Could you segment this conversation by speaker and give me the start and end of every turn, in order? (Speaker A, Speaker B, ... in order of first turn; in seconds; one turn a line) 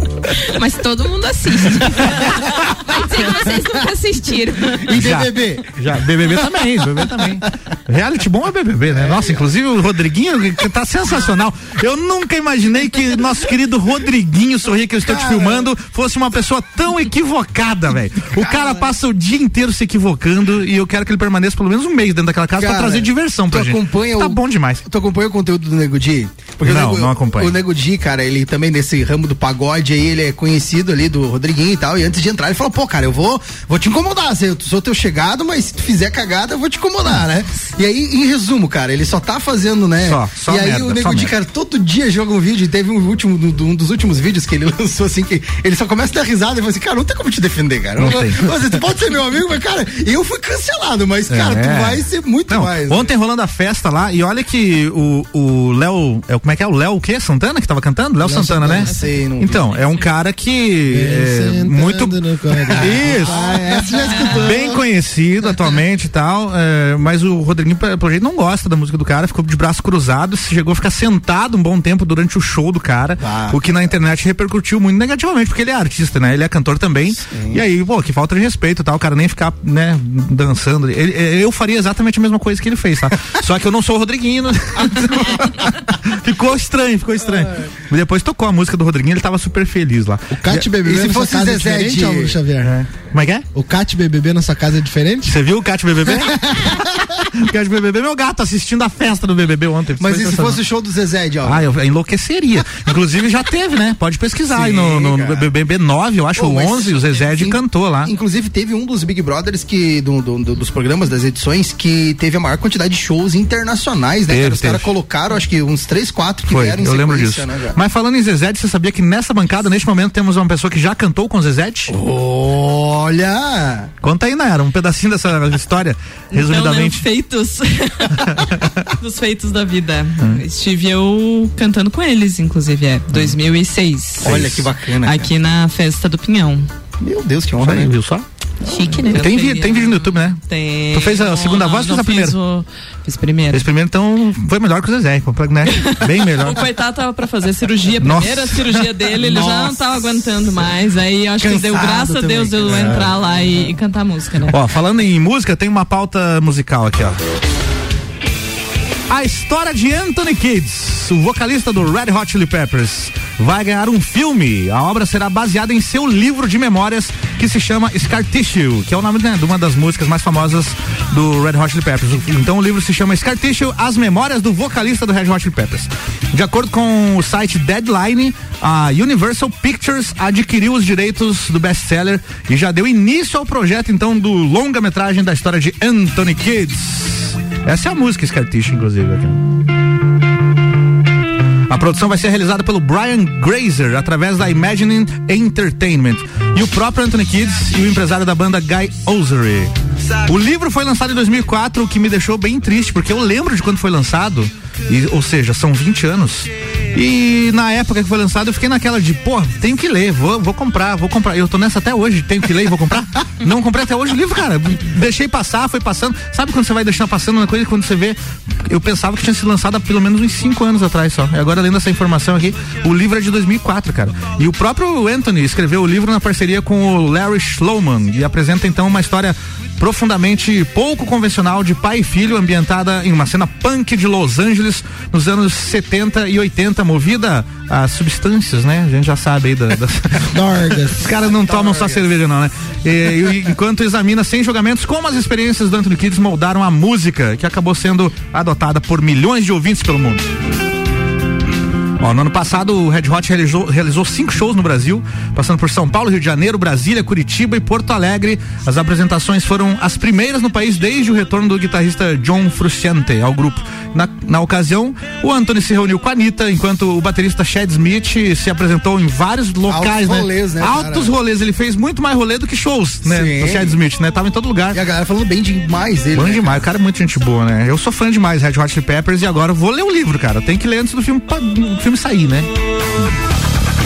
Speaker A: 0.5-5.1
Speaker B: 4.8-5.6
Speaker C: 4.9-24.8
Speaker B: 9.0-9.4
Speaker B: 15.0-15.7
Speaker B: 18.3-18.9
Speaker B: 22.6-53.1
Speaker C: 26.6-27.5
Speaker C: 40.0-41.3
Speaker C: 48.0-48.5
Speaker C: 51.3-62.1
Speaker B: 58.2-59.7
Speaker D: 60.9-64.7
Speaker B: 62.7-64.8
Speaker C: 62.7-63.4
Speaker C: 64.3-90.7
Speaker B: 73.2-73.6
Speaker B: 77.2-77.6
Speaker D: 90.3-92.7
Speaker B: 90.5-92.4
Speaker C: 92.6-93.4
Speaker D: 93.5-95.3
Speaker C: 95.2-100.6
Speaker D: 96.1-97.0
Speaker B: 100.0-101.7
Speaker C: 101.4-108.1
Speaker B: 104.5-105.5
Speaker B: 106.3-117.8
Speaker C: 114.3-114.9
Speaker C: 116.5-121.9
Speaker B: 121.9-123.9
Speaker C: 124.0-127.0
Speaker E: 126.3-134.4
Speaker C: 128.2-128.9
Speaker B: 134.2-135.3
Speaker C: 134.2-134.7
Speaker E: 135.0-136.7
Speaker B: 137.0-137.9
Speaker C: 137.6-138.2
Speaker A: 138.7-139.3
Speaker E: 138.8-143.7
Speaker C: 139.1-140.4
Speaker C: 140.9-142.4
Speaker C: 143.5-146.6
Speaker E: 145.7-154.5
Speaker C: 148.0-148.8
Speaker B: 149.2-150.2
Speaker B: 151.4-153.5
Speaker C: 152.7-153.1
Speaker C: 154.5-157.2
Speaker C: 159.1-189.4
Speaker C: 191.7-199.7
Speaker C: 200.2-240.2
Speaker D: 240.3-241.0
Speaker C: 241.0-250.2
Speaker B: 241.1-242.1
Speaker C: 252.0-274.8
Speaker B: 269.7-271.1
Speaker B: 273.0-273.8
Speaker B: 274.7-276.6
Speaker C: 276.1-282.5